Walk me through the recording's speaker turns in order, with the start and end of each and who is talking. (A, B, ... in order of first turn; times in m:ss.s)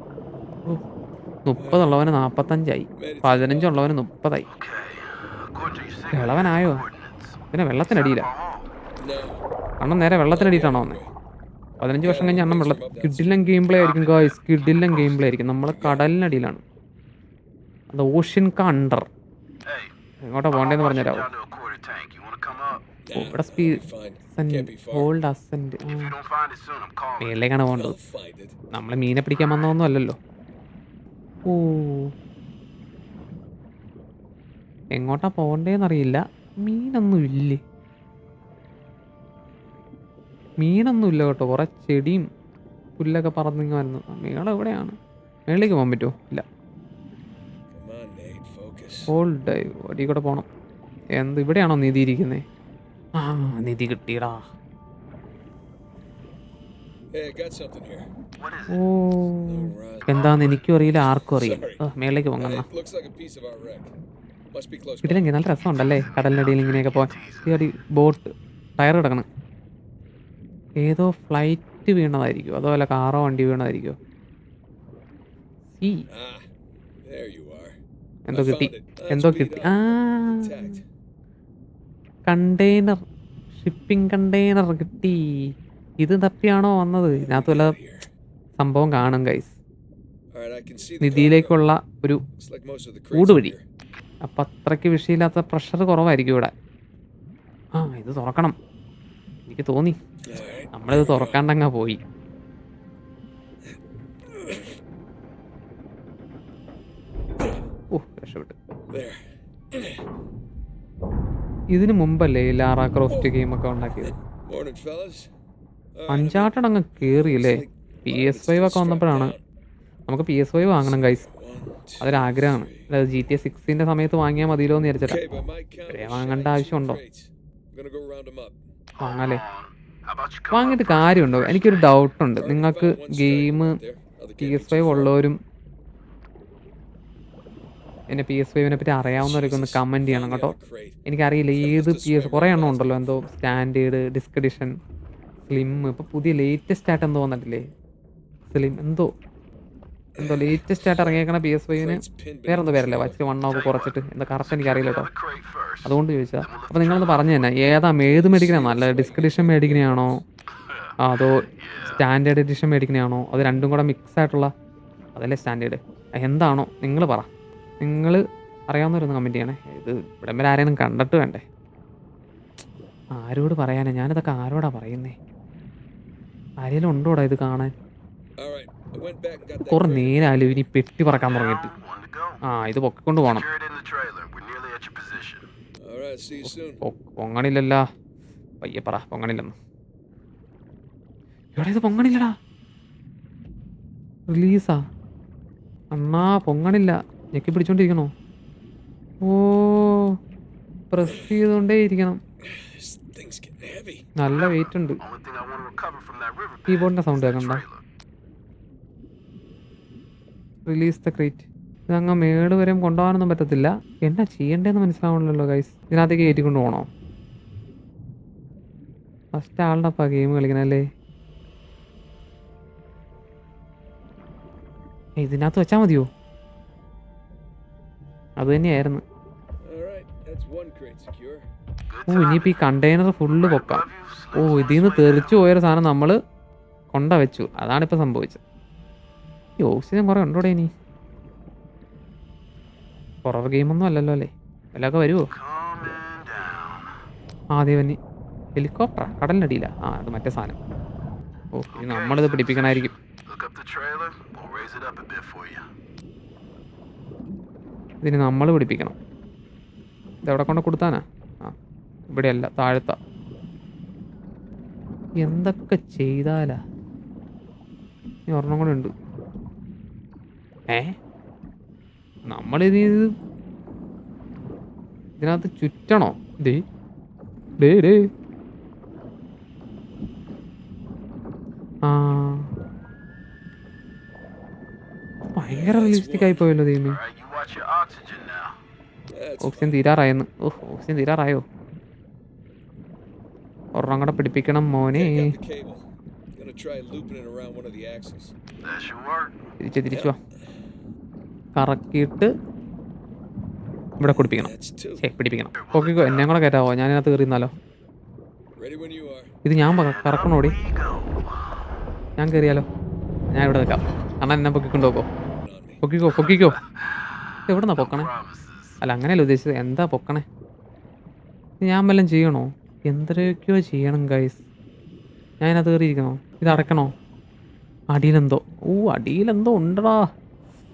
0:01.5-0:04.5 A
0:01.6-0:02.0 B
0:03.0-0:03.9 B
0:04.5-0:08.7 C
0:06.1-0:06.8 A
0:07.5-0:08.3 A
0:09.0-0:09.4 B
0:09.8-0:11.0 A
0:10.3-0:11.1 B
0:11.8-0:16.6 A
0:12.0-0:13.4 B
0:13.7-0:15.3 C
0:15.7-0:16.1 B
0:17.9-0:19.1 A
0:19.7-0:19.9 C
0:20.2-0:21.3 A
0:20.5-0:22.9 C
0:23.0-0:25.1 B
0:23.1-0:23.8 A
0:24.4-0:26.2 A
0:25.8-0:27.4 C
0:27.2-0:28.0 A
0:27.7-0:28.6 B
0:28.7-0:30.2 A
0:31.5-0:32.1 A
0:34.9-0:37.6 A
0:40.6-0:42.3 A
0:43.0-0:45.0 A
0:45.5-0:46.4 A
0:47.7-0:49.1 B
0:49.1-0:50.5 A
0:51.2-0:52.4 A
0:53.2-0:54.4 A
0:57.1-0:58.1 B
0:58.4-0:58.8 C
0:58.7-1:02.7 A
0:59.4-1:00.1 B
1:00.1-1:00.6 C
1:01.4-1:01.9 B
1:02.4-1:03.9 B
1:04.5-1:05.4 B
1:05.0-1:09.3 A
1:05.6-1:07.6 C
1:10.8-1:14.0 A
1:15.8-1:16.0 A
1:16.1-1:16.5 B
1:17.0-1:17.8 B
1:18.3-1:20.8 A
1:18.3-1:20.8 B
1:22.3-1:23.0 A
1:23.6-1:25.5 A
1:26.0-1:27.8 A
1:27.1-1:28.1 B
1:28.6-1:29.6 A
1:30.3-1:31.7 B
1:31.0-1:32.2 A
1:32.4-1:33.6 B
1:33.1-1:33.6 A
1:34.2-1:36.5 A
1:37.7-1:38.6 A
1:39.5-1:40.0 A
1:40.3-1:41.4 B
1:40.7-1:42.0 A
1:44.3-1:44.8 B
1:47.9-1:48.6 A
1:48.9-1:50.0 B
1:51.7-1:54.1 A
1:54.0-1:55.3 B
1:56.0-1:59.4 B
1:56.1-1:59.4 A
2:00.1-2:01.3 A
2:00.8-2:02.9 B
2:02.0-2:05.2 A
2:05.0-2:08.6 B
2:05.9-2:07.0 A
2:09.0-2:12.0 C
2:09.0-2:09.4 A
2:10.5-2:13.8 A
2:12.4-2:15.2 B
2:14.4-2:15.4 A
2:18.1-2:24.7 A
2:19.2-2:19.7 C
2:19.3-2:21.0 B
2:21.6-2:23.2 B
2:25.5-2:27.6 A
2:28.5-2:29.1 A
2:30.2-2:35.1 A
2:30.2-2:30.6 B
2:31.7-2:33.3 B
2:33.5-2:38.1 C
2:35.8-2:40.2 A
2:38.1-2:40.1 B
2:41.0-2:44.5 A
2:41.6-2:42.0 C
2:45.2-2:47.3 A
2:47.8-2:51.4 A
2:53.2-2:55.2 A
2:56.6-2:57.7 A
2:58.4-3:00.6 B
2:59.7-3:01.7 A
3:01.1-3:02.4 C
3:02.4-3:03.5 A
3:03.2-3:05.5 C
3:05.8-3:06.8 B
3:06.8-3:07.8 A
3:08.6-3:09.5 A
3:11.6-3:12.3 A
3:14.3-3:14.8 A
3:15.9-3:18.1 A
3:19.2-3:20.2 A
3:20.9-3:22.2 A
3:22.4-3:24.1 B
3:24.2-3:25.0 A
3:24.2-3:27.8 C
3:26.7-3:27.6 A
3:30.7-3:36.9 A
3:39.3-3:40.8 A
3:45.2-3:46.1 A
3:48.4-3:49.0 A
3:49.6-3:51.5 B
3:51.9-3:52.7 C
3:52.1-3:56.2 A
3:53.4-3:55.4 C
3:56.9-3:58.4 A
3:59.6-4:00.7 A
4:03.2-4:05.3 A
4:05.4-4:06.9 C
4:07.5-4:08.0 A
4:08.6-4:10.6 A
4:11.6-4:12.9 A
4:11.7-4:15.7 C
4:18.0-4:19.0 A
4:20.2-4:21.5 A
4:22.1-4:23.0 A
4:25.2-4:26.6 A
4:28.3-4:28.9 A
4:30.7-4:31.0 A
4:32.3-4:33.1 A
4:35.2-4:36.6 A
4:37.6-4:38.1 A
4:41.9-4:42.5 A
4:45.3-4:47.0 A
4:45.4-4:46.5 B
4:46.9-4:48.6 C
4:49.1-4:49.8 B
4:49.4-4:51.4 A
4:53.8-4:55.4 A
4:54.9-4:55.8 B
4:56.4-4:58.4 B
4:58.6-4:59.3 C
4:59.6-5:00.2 A
4:59.9-5:00.2 B
5:01.6-5:02.3 A
5:04.0-5:07.5 A
5:04.2-5:05.0 B
5:05.6-5:06.3 C
5:08.6-5:09.3 B
5:09.4-5:10.6 A
5:09.7-5:11.2 C
5:12.2-5:12.6 A
5:13.3-5:15.1 A
5:15.4-5:15.8 B
5:15.8-5:16.6 A
5:17.5-5:18.1 A
5:17.7-5:18.8 C
5:18.8-5:20.2 A
5:21.6-5:24.4 A
5:25.4-5:26.9 A
5:27.9-5:30.0 A